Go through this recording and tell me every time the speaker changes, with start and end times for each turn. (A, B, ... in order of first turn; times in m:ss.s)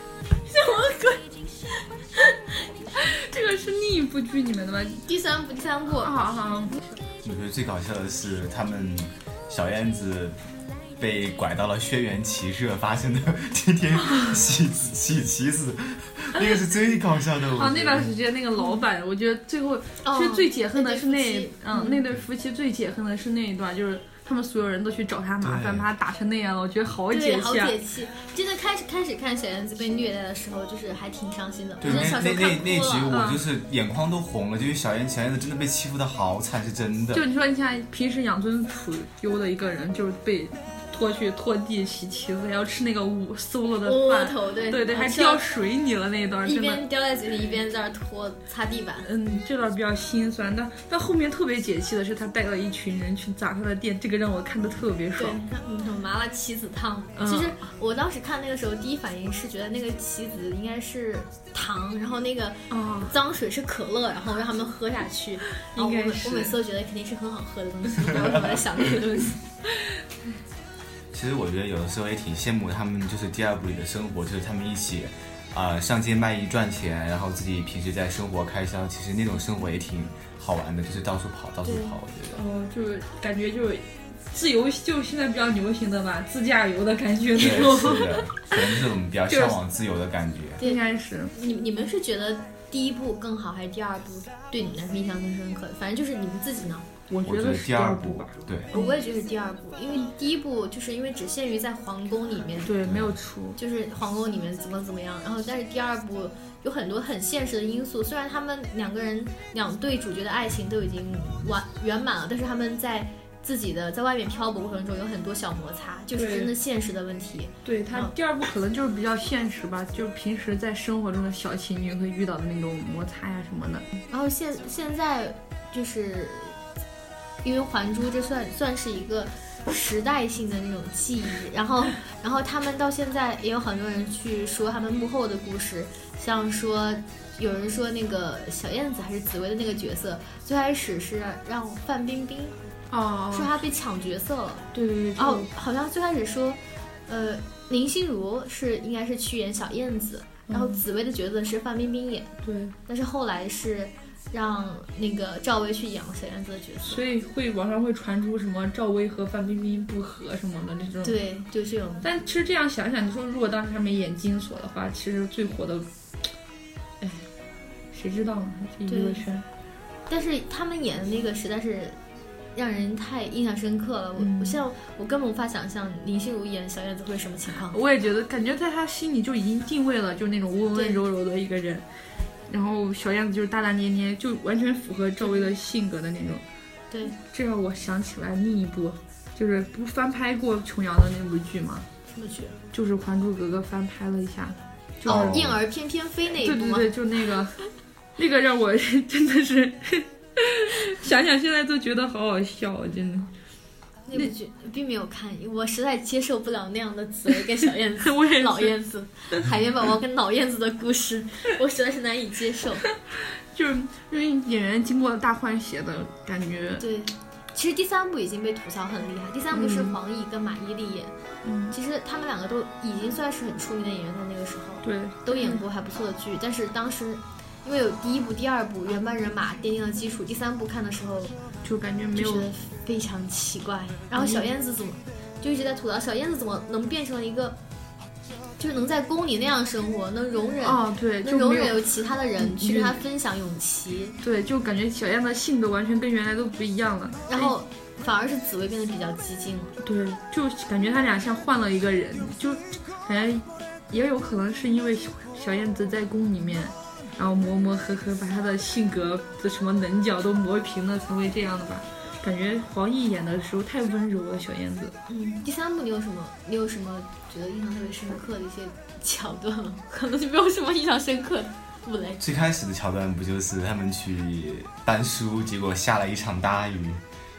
0:00.5-0:01.3 A
0:03.0-0:05.0 B
0:05.1-0:06.2 A
0:06.0-0:06.8 B
0:07.2-0:10.4 C
0:11.0-0:18.1 C
0:17.6-0:27.8 B
0:20.0-0:22.0 A
0:25.4-0:25.9 C
0:27.1-0:33.2 A
0:31.8-0:37.2 C
0:31.9-0:32.2 B
0:33.1-0:33.4 B
0:37.1-0:46.8 B
0:43.8-0:45.4 A
0:46.4-0:49.1 A
0:49.0-0:55.4 B
0:55.2-1:09.4 A
0:57.2-0:57.6 B
1:02.7-1:03.1 B
1:05.5-1:06.5 B
1:11.1-1:22.4 C
1:21.6-1:21.9 A
1:22.3-1:29.6 B
1:27.4-1:30.6 C
1:30.6-1:36.9 A
1:30.6-1:31.3 B
1:37.1-1:39.0 B
1:37.2-1:38.7 C
1:38.7-1:42.8 A
1:42.7-1:43.6 B
1:42.9-1:43.1 C
1:43.6-1:58.1 A
1:56.2-1:56.5 B
1:57.6-2:03.9 B
2:04.1-2:06.6 A
2:07.4-2:22.6 A
2:22.9-2:23.6 B
2:23.3-2:32.3 A
2:24.7-2:25.5 B
2:30.5-2:30.8 B
2:32.4-2:32.8 B
2:32.9-2:37.0 A
2:36.8-2:41.2 B
2:41.0-2:42.1 A
2:42.0-2:45.9 B
2:47.0-2:47.3 B
2:47.9-2:49.4 B
2:48.9-2:49.2 A
2:50.1-2:52.0 A
2:52.6-2:57.8 A
2:54.2-2:54.6 B
2:57.7-3:01.8 B
3:00.7-3:01.0 A
3:02.5-3:06.4 B
3:05.2-3:05.5 A
3:06.9-3:07.2 A
3:07.1-3:11.9 B
3:12.1-3:12.6 A
3:12.7-3:15.5 B
3:15.0-3:16.9 A
3:15.1-3:15.6 C
3:16.4-3:17.6 B
3:18.2-3:23.3 B
3:24.1-3:32.9 A
3:28.0-3:28.7 B
3:33.5-3:36.8 B
3:36.8-3:41.2 A
3:39.5-3:40.0 B
3:41.4-3:41.8 B
3:41.7-3:51.4 A
3:44.8-3:45.6 B
3:51.6-3:52.5 B
3:52.1-3:57.6 A
3:54.2-3:54.5 B
3:58.6-4:04.2 A
4:00.6-4:01.8 B
4:02.4-4:03.0 B
4:04.2-4:07.5 B
4:07.3-4:09.8 A
4:09.8-4:25.0 B
4:25.1-4:32.2 A
4:32.2-4:37.0 C